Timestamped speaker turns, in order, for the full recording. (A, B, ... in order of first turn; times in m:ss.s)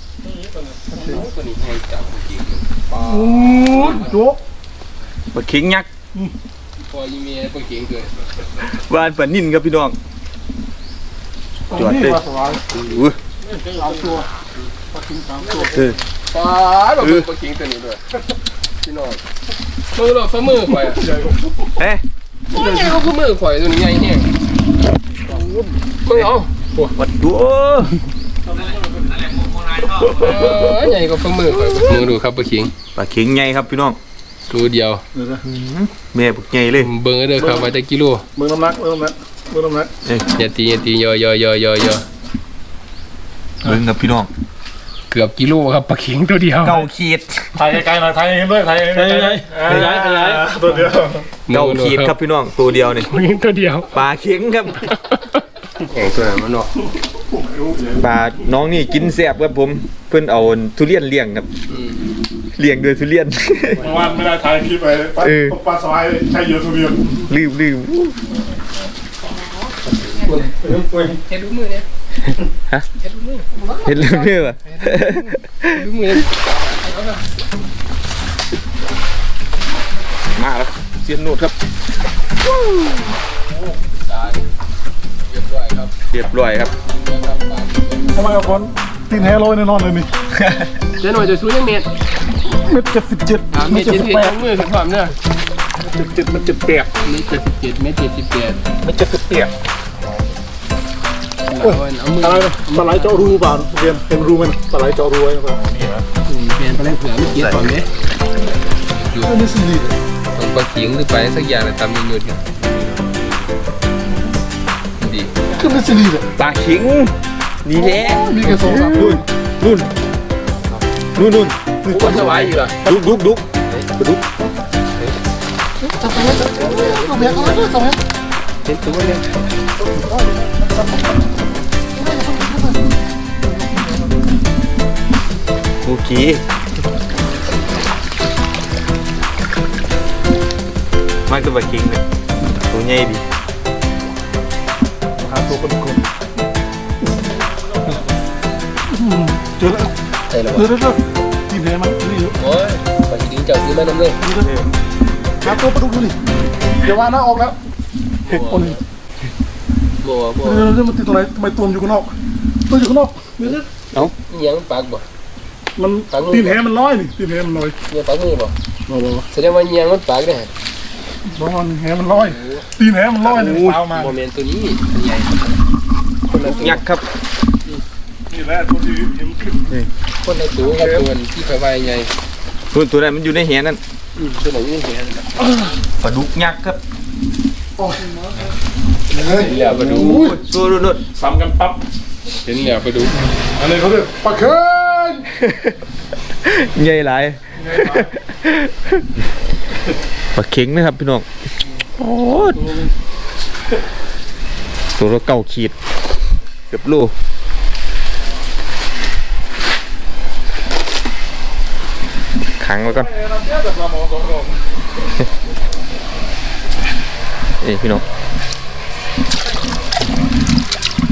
0:00.4-0:01.2 A
0:00.9-0:04.2 B
0:03.0-0:04.4 A
0:05.3-0:05.9 C
0:06.8-0:08.1 B
0:08.6-0:10.0 C
0:11.7-0:13.2 C
0:11.7-0:12.6 A
0:13.5-0:14.3 A
0:14.9-0:15.8 A
0:15.7-0:16.0 C
0:16.3-0:18.0 B
0:17.0-0:17.2 C
0:18.8-0:19.2 B
0:19.9-0:21.1 B
0:21.0-0:21.4 A
0:21.8-0:22.0 C
0:22.5-0:24.3 B
0:25.3-0:25.7 A
0:26.0-0:26.9 B
0:27.0-0:28.0 C
0:29.5-0:30.0 C
0:30.0-0:32.7 B
0:32.9-0:34.0 C
0:34.5-0:35.0 B
0:35.1-0:35.4 A
0:35.4-0:36.9 C
0:36.8-0:38.2 B
0:37.4-0:37.6 A
0:38.4-0:39.9 A
0:40.3-0:42.0 B
0:43.6-0:44.3 C
0:45.1-0:46.8 B
0:46.6-0:47.5 C
0:47.5-0:51.2 A
0:49.1-0:50.4 B
0:49.5-0:50.3 C
0:51.5-0:52.1 B
0:51.5-0:53.1 C
0:52.8-0:53.9 B
0:53.9-0:54.9 C
0:54.9-0:56.7 B
0:57.3-0:58.0 A
0:57.9-1:01.5 C
1:01.7-1:02.1 B
1:02.6-1:03.9 C
1:03.8-1:07.2 A
1:05.2-1:05.6 C
1:07.3-1:08.2 C
1:10.1-1:10.5 B
1:10.3-1:11.1 A
1:11.0-1:11.9 B
1:13.0-1:13.8 B
1:13.7-1:15.8 C
1:14.6-1:17.2 B
1:20.4-1:21.5 C
1:23.8-1:24.5 B
1:25.3-1:25.9 B
1:26.1-1:26.7 C
1:26.8-1:28.3 B
1:28.1-1:30.1 A
1:30.3-1:30.7 C
1:31.0-1:31.9 B
1:32.5-1:34.4 A
1:33.5-1:35.1 B
1:35.8-1:36.9 A
1:37.0-1:38.6 B
1:38.8-1:39.5 C
1:41.5-1:43.4 B
1:41.6-1:45.6 A
1:45.8-1:46.0 C
1:46.3-1:47.9 B
1:47.4-1:47.7 C
1:48.9-1:49.4 B
1:49.2-1:49.9 A
1:50.3-1:52.4 B
1:55.0-1:55.3 B
1:55.5-1:56.3 A
1:56.4-1:59.9 C
1:57.8-1:59.2 A
2:01.1-2:04.2 C
2:01.8-2:03.2 A
2:01.9-2:02.8 B
2:05.9-2:08.0 A
2:06.2-2:07.6 B
2:08.6-2:09.2 B
2:09.8-2:10.7 A
2:12.0-2:12.7 A
2:15.8-2:16.4 C
2:21.3-2:22.0 C
2:22.5-2:23.2 C
2:25.2-2:26.0 A
2:28.9-2:29.9 A
2:30.3-2:30.7 B
2:30.5-2:32.4 A
2:32.4-2:34.2 B
2:34.2-2:34.5 A
2:34.4-2:34.7 C
2:35.4-2:36.2 A
2:36.8-2:37.6 A
2:38.2-2:38.8 B
2:38.3-2:38.8 A
2:40.0-2:40.7 B
2:40.4-2:42.1 A
2:42.7-2:43.7 A
2:44.3-2:45.0 B
2:45.8-2:47.8 A
2:46.1-2:46.6 B
2:47.9-2:48.5 B
2:48.9-2:49.2 A
2:49.3-2:50.5 B
2:51.3-2:54.1 A
2:52.1-2:52.7 B
2:53.2-2:53.8 C
2:53.8-2:55.4 B
2:56.3-2:56.8 B
2:56.4-2:57.1 C
2:58.3-2:59.7 A
3:00.2-3:02.1 B
3:00.7-3:01.0 A
3:02.7-3:03.8 C
3:04.2-3:05.3 B
3:06.0-3:06.8 C
3:07.8-3:08.3 A
3:09.1-3:10.4 A
3:09.2-3:10.3 B
3:09.8-3:11.0 C
3:11.1-3:11.8 A
3:12.4-3:13.2 B
3:13.5-3:15.3 A
3:15.4-3:15.8 C
3:16.4-3:19.2 C
3:17.7-3:18.0 A
3:20.3-3:21.2 C
3:22.0-3:22.7 C
3:25.0-3:25.7 C
3:26.7-3:27.1 C
3:32.6-3:33.1 C
3:33.2-3:34.5 A
3:37.6-3:38.0 C